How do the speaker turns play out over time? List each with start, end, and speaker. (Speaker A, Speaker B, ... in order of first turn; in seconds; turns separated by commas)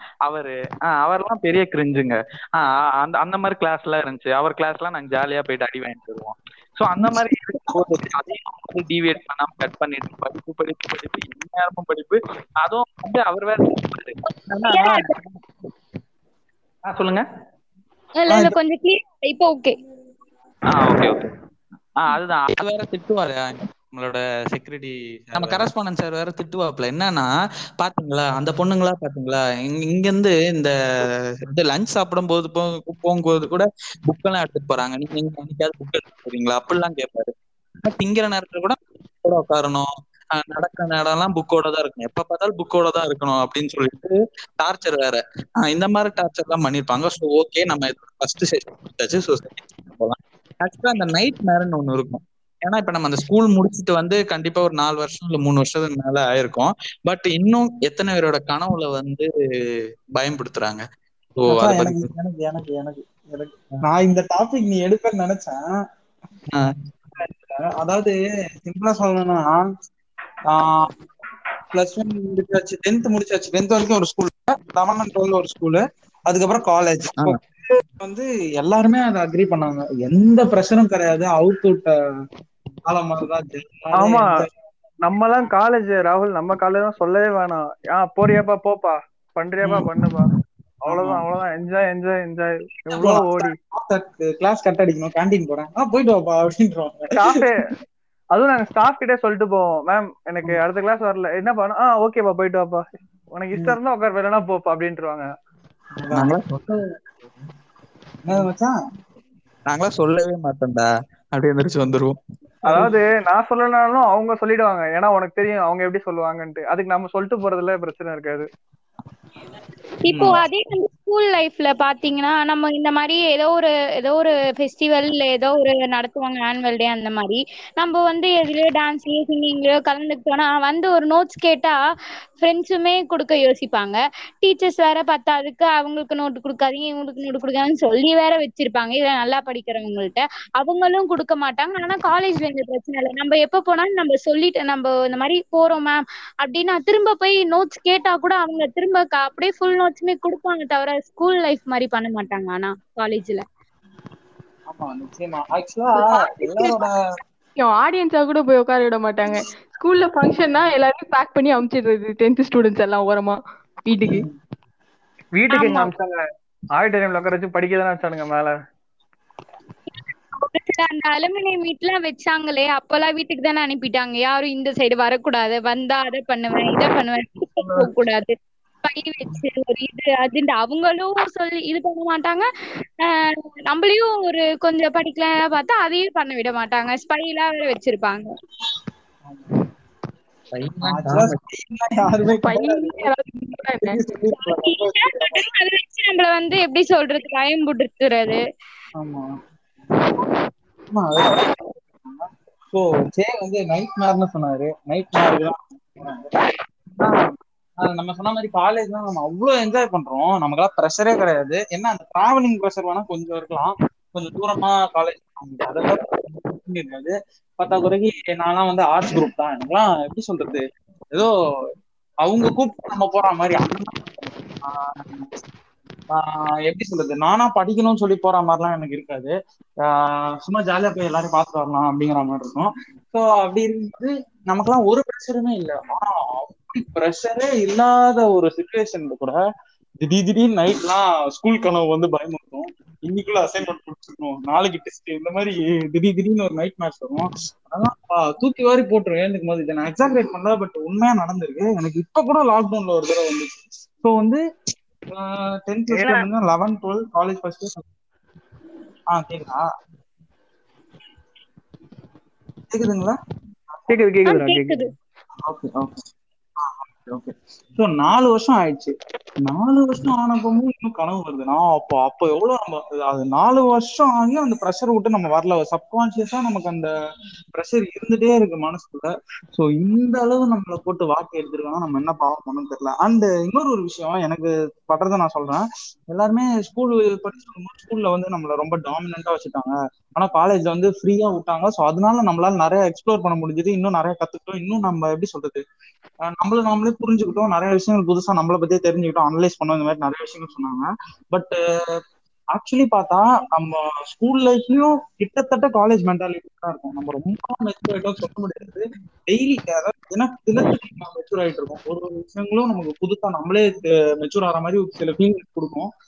Speaker A: 0.3-15.3, Speaker B: 7.7-8.0, Speaker C: 14.2-15.2, Speaker A: 16.8-17.2, Speaker C: 18.2-19.8, Speaker A: 20.7-21.3, Speaker A: 22.0-27.3, Speaker B: 25.4-25.7, Speaker A: 27.8-59.3, Speaker A: 60.2-60.8, Speaker A: 61.4-62.1, Speaker B: 61.5-65.5, Speaker B: 67.2-69.6, Speaker B: 71.7-81.9, Speaker B: 82.9-84.5, Speaker D: 84.0-84.3, Speaker D: 85.0-90.3, Speaker D: 90.9-93.5, Speaker B: 90.9-91.2, Speaker B: 92.9-97.5, Speaker D: 97.1-97.6, Speaker D: 98.3-105.3, Speaker B: 106.0-106.3, Speaker A: 106.1-106.8, Speaker B: 108.3-108.7, Speaker A: 109.7-112.2, Speaker D: 112.7-118.5, Speaker C: 120.1-131.8, Speaker B: 120.1-120.4, Speaker C: 132.4-153.4, Speaker B: 154.7-156.9, Speaker E: 156.0-156.9, Speaker E: 157.6-164.2, Speaker B: 164.1-164.3, Speaker D: 165.4-166.2, Speaker C: 165.5-165.9, Speaker D: 166.8-168.5, Speaker C: 169.9-182.5, Speaker C: 183.0-188.3, Speaker B: 189.2-189.5, Speaker A: 190.5-191.4, Speaker B: 190.8-193.1, Speaker E: 192.4-194.0, Speaker B: 193.8-195.5, Speaker C: 194.3-198.4, Speaker B: 199.0-199.3, Speaker B: 200.9-206.4, Speaker B: 207.0-220.6, Speaker B: 222.2-225.3, Speaker B: 226.1-239.4, Speaker B: 240.0-254.4, Speaker B: 255.1-257.8, Speaker D: 255.9-256.3, Speaker B: 259.1-259.6, Speaker B: 262.7-263.2, Speaker D: 263.9-264.9, Speaker C: 264.3-264.9, Speaker B: 265.5-266.0, Speaker B: 266.6-268.9, Speaker B: 269.4-276.9, Speaker B: 277.5-295.6, Speaker B: 296.3-301.6, Speaker B: 302.5-315.9